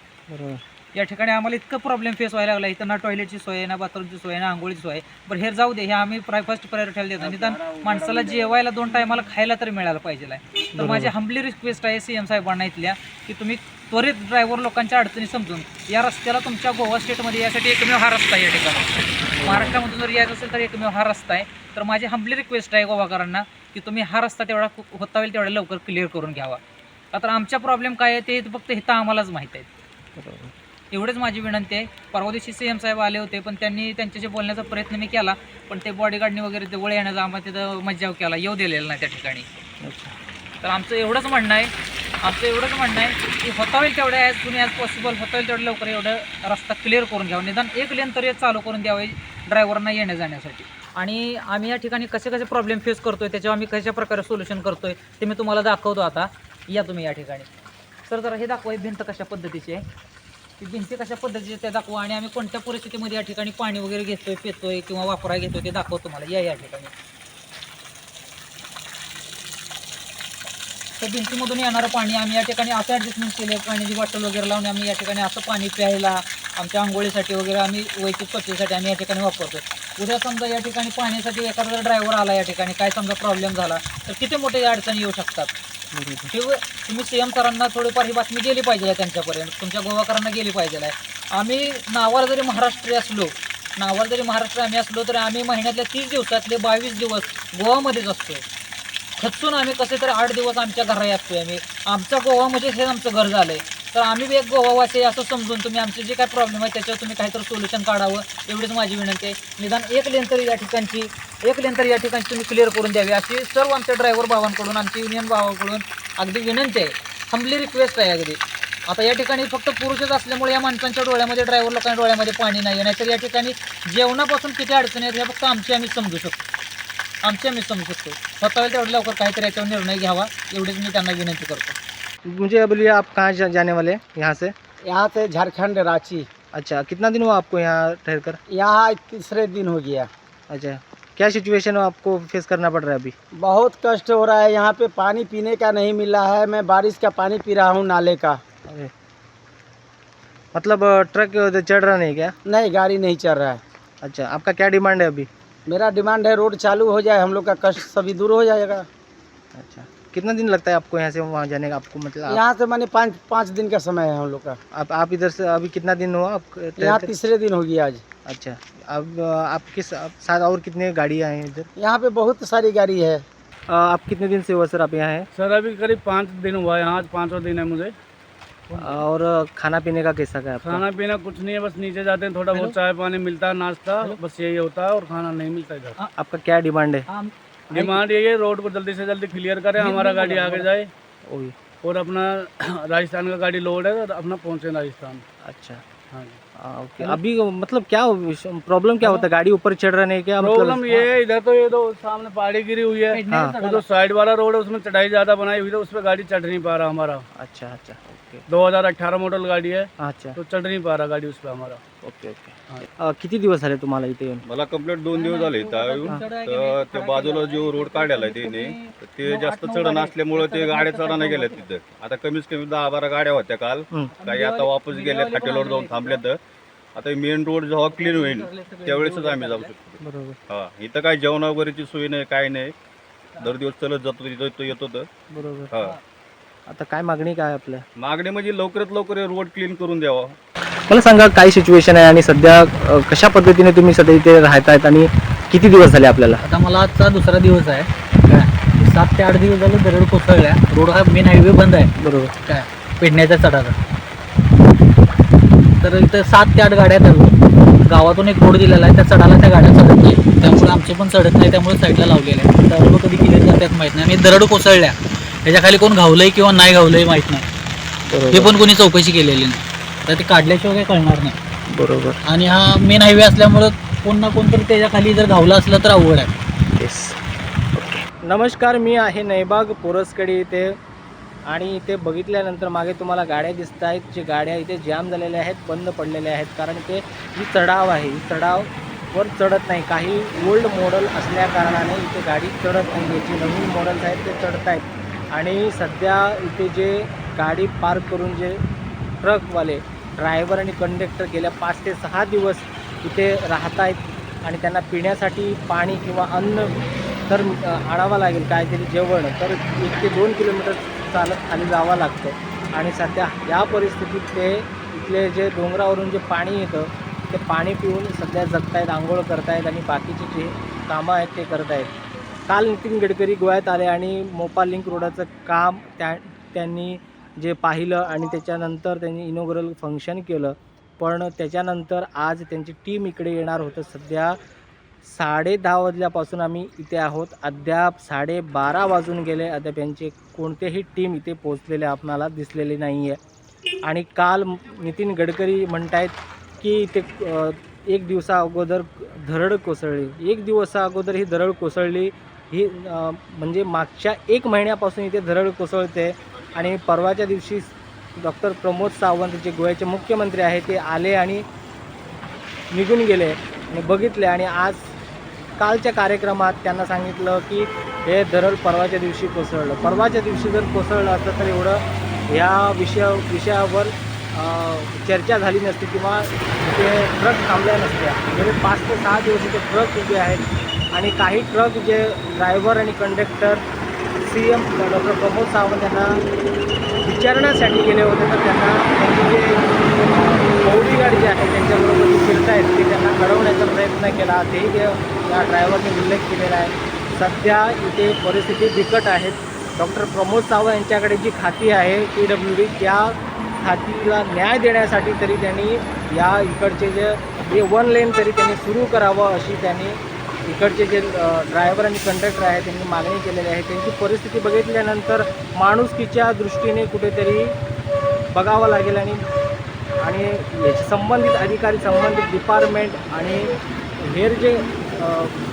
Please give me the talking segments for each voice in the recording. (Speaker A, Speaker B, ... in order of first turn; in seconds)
Speaker A: 0.3-0.6, 10.8-11.1, 19.3-19.8, 30.2-30.5, 39.8-40.1, 85.9-86.3, 132.3-134.5, 136.5-138.4, 140.5-143.1, 150.5-152.3, 154.0-155.3, 159.5-162.4, 164.7-167.2, 168.2-171.7, 173.7-175.3, 178.8-180.8, 186.2-187.1, 191.2-191.5, 195.4-195.8, 196.6-201.1, 203.3-203.6, 207.3-208.4, 210.0-210.4, 212.0-214.4, 230.0-230.4, 235.3-235.7, 236.7-237.8, 240.9-246.4, 252.0-252.3, 268.1-268.6, 271.7-272.2, 276.8-277.2, 277.8-280.7, 281.5-298.6, 299.2-306.7, 307.3-321.9, 322.5-334.4, 335.0-343.2, 343.8-361.4, 362.7-364.9, 365.6-380.4, 380.9-383.6, 384.2-386.2, 387.0-417.5, 418.3-419.2, 420.0-423.5, 424.0-425.3
Speaker B: 0.9-26.6, 27.1-29.7, 30.9-39.5, 40.6-57.5, 58.1-59.8, 60.6-66.9, 71.0-85.5, 86.3-98.4, 99.2-126.5, 127.2-131.8, 178.7-179.0, 189.8-190.7, 203.1-203.8, 215.2-221.7, 224.2-226.2, 227.9-229.7, 246.4-251.9, 252.5-253.8, 255.8-267.4, 268.3-271.3, 272.2-276.3
Speaker C: 134.9-136.3, 138.5-140.1, 143.4-148.4, 152.4-153.6, 155.7-158.8, 162.3-164.6, 166.8-168.0, 171.8-173.2
Speaker D: 175.3-177.9, 180.6-186.0, 187.7-190.9, 191.8-195.2, 196.1-196.4, 200.4-207.2, 208.5-211.8
Speaker E: 214.4-226.4, 226.9-232.7, 233.4-235.1, 238.0-240.4